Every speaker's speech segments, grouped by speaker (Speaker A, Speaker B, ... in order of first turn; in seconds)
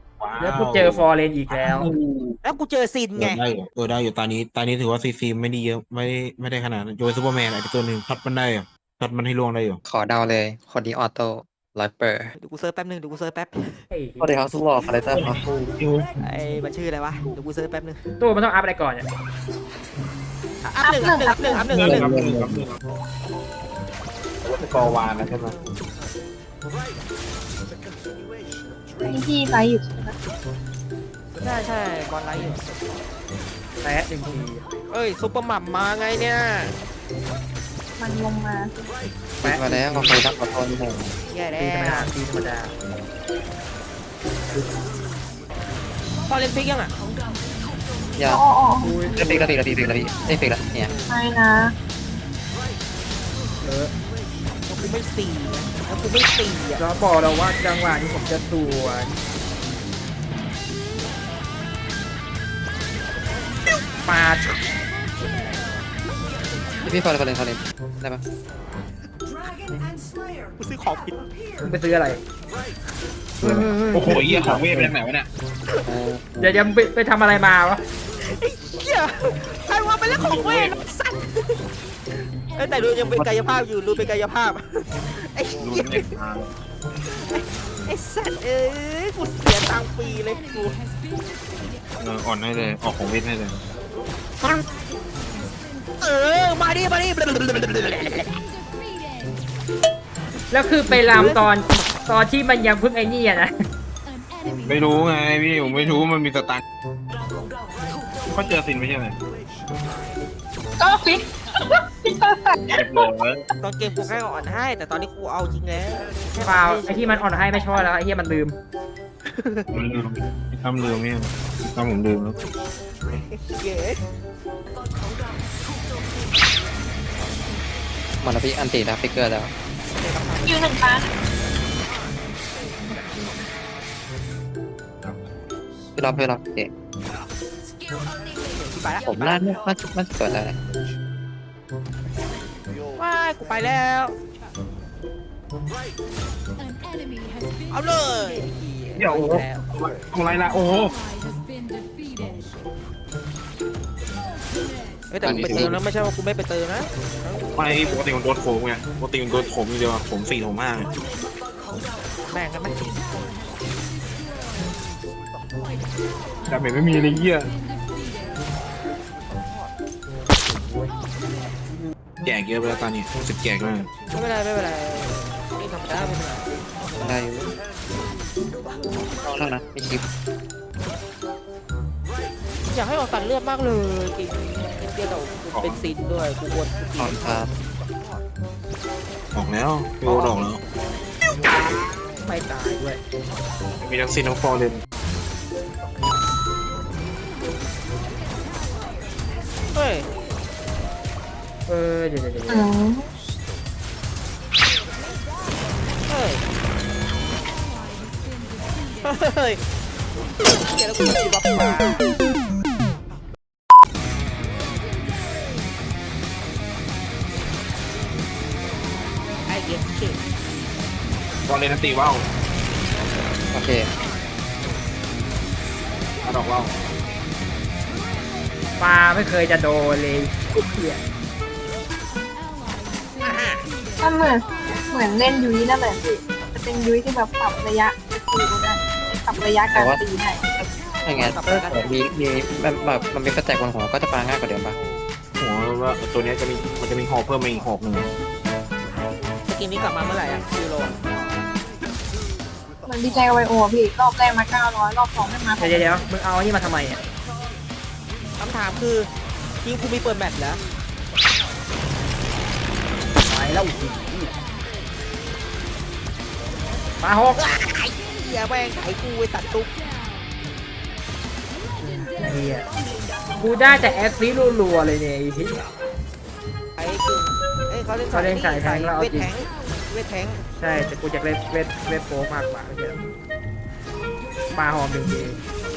Speaker A: 0.2-2.4, 3.1-9.8, 15.1-16.1, 21.7-22.8, 24.4-25.6, 73.9-75.3, 80.1-80.8, 85.6-86.5, 92.0-93.6, 104.6-106.6, 108.3-109.2, 112.7-113.4, 119.7-122.4, 148.9-150.9, 157.5-160.9, 166.4-167.5, 172.2-173.9, 185.5-185.9, 189.3-190.6, 193.8-194.8, 221.4-222.2, 226.2-226.7, 245.4-248.1
Speaker B: 0.4-1.9, 13.9-14.6, 18.2-19.1, 33.8-34.6, 39.4-40.2, 41.6-42.8, 48.8-49.5, 53.6-53.9, 56.8-59.2, 64.0-64.6, 71.6-72.2, 73.4-74.8, 76.4-77.8, 100.5-103.5, 116.4-118.6, 170.5-170.9, 192.7-193.0, 201.7-202.7, 228.8-231.0, 255.6-257.0, 263.2-264.3, 267.0-267.4, 272.0-272.7, 273.4-275.6, 278.1-279.3, 280.6-283.0, 284.5-285.4
Speaker C: 2.4-3.4, 12.4-13.8, 16.2-18.0, 20.6-22.1, 31.3-32.6, 34.9-36.7, 41.3-42.1, 46.3-46.9, 54.7-56.8, 70.6-71.2, 78.2-81.6, 82.5-86.1, 87.2-90.8, 94.4-94.7, 96.0-98.3, 100.9-101.5, 113.6-117.7, 119.2-119.7, 123.1-124.0, 129.9-130.8, 138.5-139.6, 142.9-144.2, 147.7-149.6, 155.1-158.0, 162.3-163.0, 174.1-176.7, 182.6-187.4, 190.0-190.5, 192.2-192.8, 199.7-200.1, 206.1-206.4, 209.0-209.6, 210.4-212.0, 219.4-220.2, 233.2-233.6, 241.1-242.0, 249.5-251.0, 258.4-259.1, 259.6-260.6, 267.4-269.7, 276.8-280.4
Speaker D: 9.8-12.3, 14.2-15.4, 21.8-22.6, 39.4-41.1, 49.1-50.9, 66.8-68.2, 73.4-74.9, 75.8-76.6, 128.2-129.5, 135.9-136.7, 139.0-140.6, 155.2-155.8, 177.0-177.6, 179.2-180.0, 187.0-187.5, 223.5-223.9, 239.7-240.0, 240.6-244.8
Speaker E: 20.8-21.8, 29.0-30.1, 38.0-38.7, 48.2-49.1, 51.1-51.7, 110.8-113.0, 130.4-131.1, 202.5-203.1, 234.0-240.4, 252.8-255.9